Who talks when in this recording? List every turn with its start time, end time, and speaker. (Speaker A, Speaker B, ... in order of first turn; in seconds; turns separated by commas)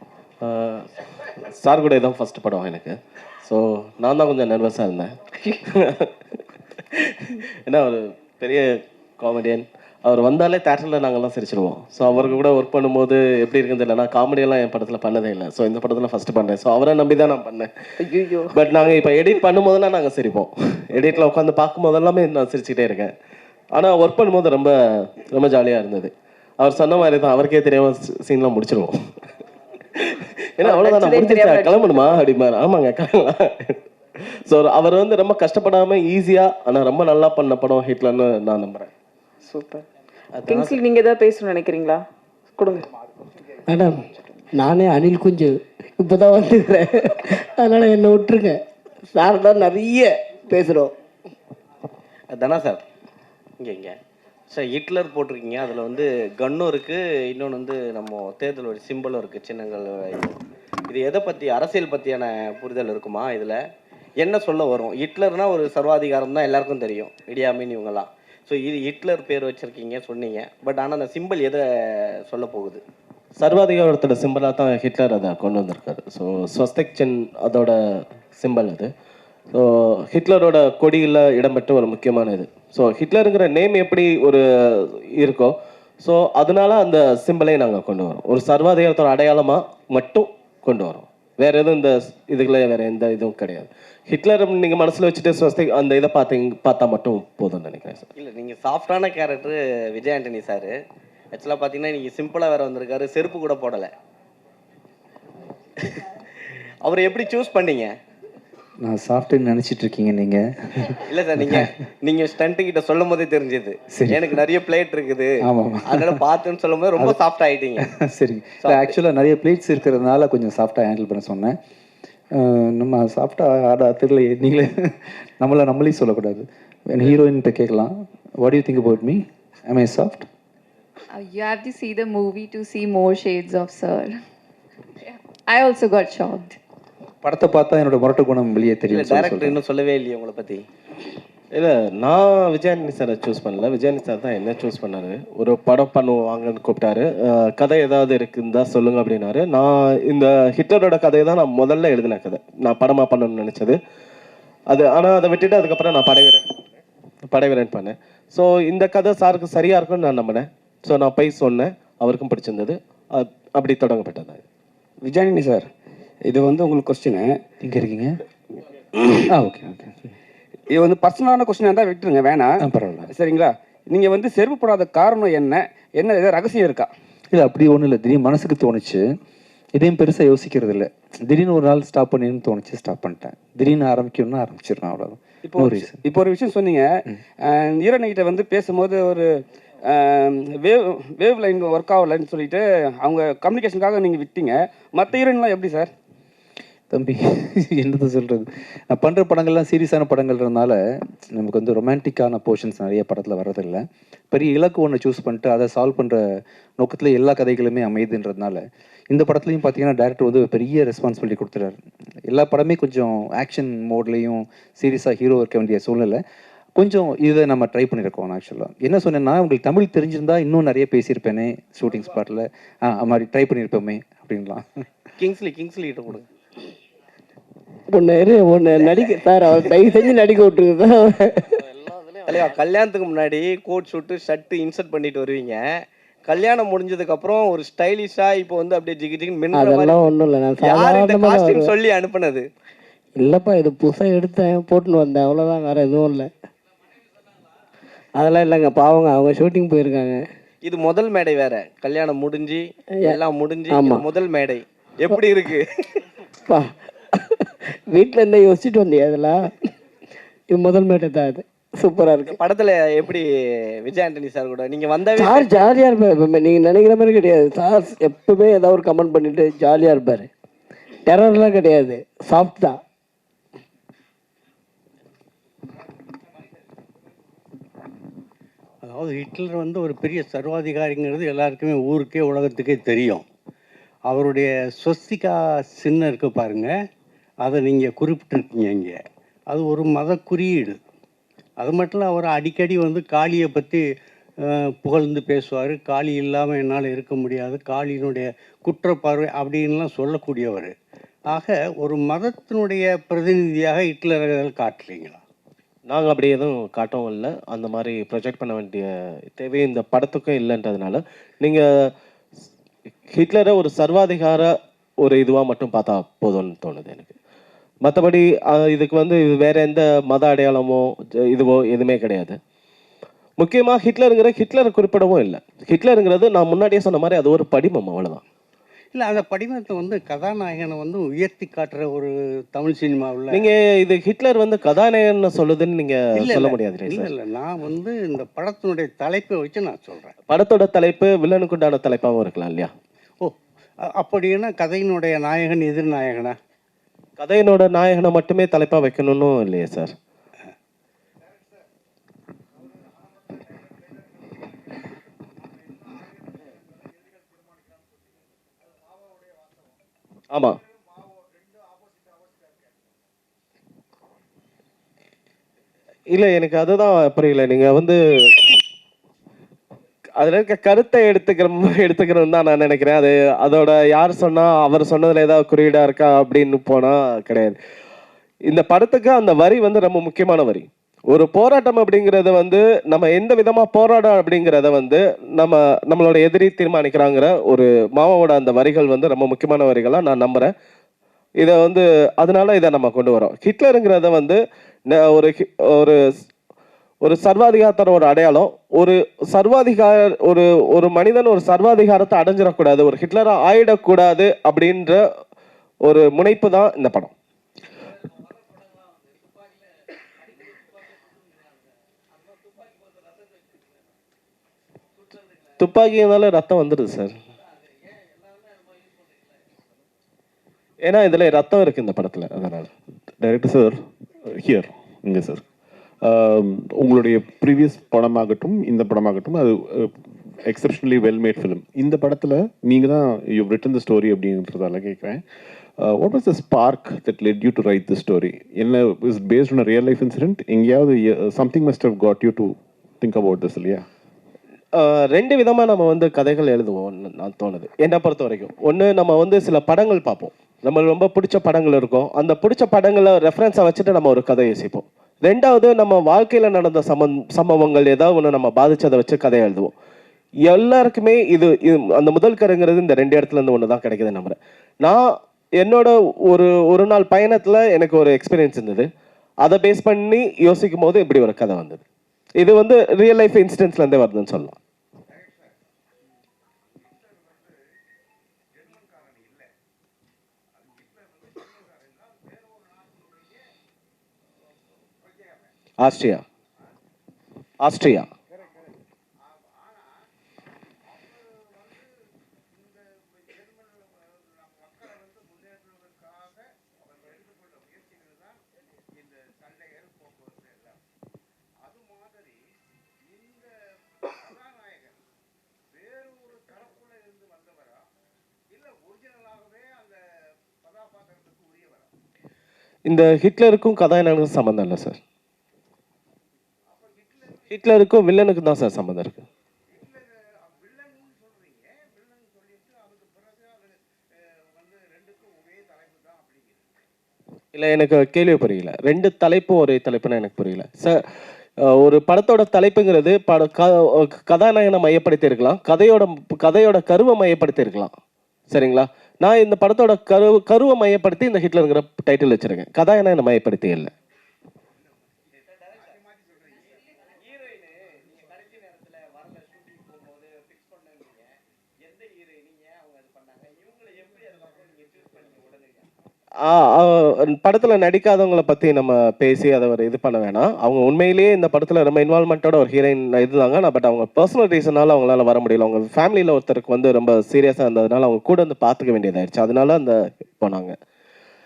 Speaker A: 0.4-5.2, Speaker A: 5.8-6.1, Speaker A: 6.8-23.1, Speaker B: 18.1-18.5, Speaker A: 23.7-28.9, Speaker A: 29.9-33.8, Speaker B: 30.6-32.1, Speaker A: 34.3-38.9, Speaker B: 39.5-39.8, Speaker A: 40.3-40.8, Speaker B: 40.5-42.0, Speaker B: 42.6-42.9, Speaker C: 43.7-50.9, Speaker D: 52.3-52.8, Speaker D: 53.6-54.0, Speaker D: 54.5-60.4, Speaker D: 60.9-63.6, Speaker D: 64.2-72.8, Speaker A: 73.4-78.9, Speaker A: 79.5-98.1, Speaker D: 98.2-100.7, Speaker D: 101.3-103.9, Speaker D: 106.8-107.9, Speaker E: 108.8-111.7, Speaker D: 111.1-117.9, Speaker E: 113.9-114.4, Speaker E: 115.5-116.2, Speaker E: 117.8-121.5, Speaker D: 118.6-118.9, Speaker E: 122.4-130.3, Speaker F: 131.1-134.2, Speaker F: 135.0-136.6, Speaker E: 137.2-139.6, Speaker D: 138.9-140.7, Speaker A: 141.5-153.8, Speaker A: 154.7-156.4, Speaker A: 157.2-164.4, Speaker G: 165.0-165.7, Speaker G: 166.3-167.4, Speaker E: 167.6-168.2, Speaker E: 169.3-169.9, Speaker G: 170.7-176.9, Speaker E: 172.6-173.1, Speaker E: 177.3-179.0, Speaker E: 179.8-186.0, Speaker G: 185.5-186.9, Speaker G: 187.4-189.3, Speaker G: 189.9-195.9, Speaker E: 196.9-200.8, Speaker E: 201.3-211.8, Speaker E: 212.3-216.2, Speaker E: 216.8-224.7, Speaker D: 225.2-226.3, Speaker C: 227.9-231.6, Speaker D: 228.8-229.9, Speaker D: 232.3-235.7, Speaker D: 236.2-242.4, Speaker C: 239.5-241.7, Speaker C: 243.2-246.3, Speaker C: 248.2-250.3, Speaker D: 250.6-256.0, Speaker C: 253.7-254.1, Speaker C: 256.5-259.5, Speaker C: 260.5-262.4, Speaker D: 262.2-265.7, Speaker C: 265.2-270.3, Speaker C: 271.1-272.8, Speaker H: 278.8-283.2, Speaker H: 284.1-286.8, Speaker H: 287.4-290.8, Speaker H: 291.6-293.9, Speaker H: 294.5-300.7, Speaker H: 301.3-305.2, Speaker A: 305.9-311.7, Speaker A: 313.1-314.5, Speaker A: 315.0-317.1, Speaker A: 317.8-322.4, Speaker A: 323.4-328.2, Speaker H: 328.9-333.5, Speaker A: 333.3-337.1, Speaker H: 336.2-340.1, Speaker A: 340.3-342.7, Speaker H: 343.9-346.4, Speaker A: 347.2-349.9, Speaker A: 360.3-360.6, Speaker A: 366.1-368.5, Speaker A: 370.2-377.6, Speaker A: 378.5-390.5, Speaker A: 391.4-394.4, Speaker A: 394.9-396.0, Speaker A: 397.0-405.0, Speaker A: 405.9-407.1, Speaker A: 415.6-417.1, Speaker A: 420.8-422.7, Speaker I: 423.2-423.8, Speaker I: 424.4-425.4, Speaker I: 426.0-429.9, Speaker I: 430.4-435.2, Speaker I: 435.8-443.9, Speaker A: 444.8-459.7, Speaker A: 460.5-465.0, Speaker A: 465.6-468.9, Speaker A: 469.4-471.8, Speaker A: 472.4-474.6, Speaker A: 485.8-486.2, Speaker A: 487.6-488.1, Speaker A: 512.9-515.0, Speaker A: 517.5-519.2, Speaker A: 527.5-531.0, Speaker A: 531.7-537.9, Speaker A: 538.5-543.9, Speaker A: 556.4-570.8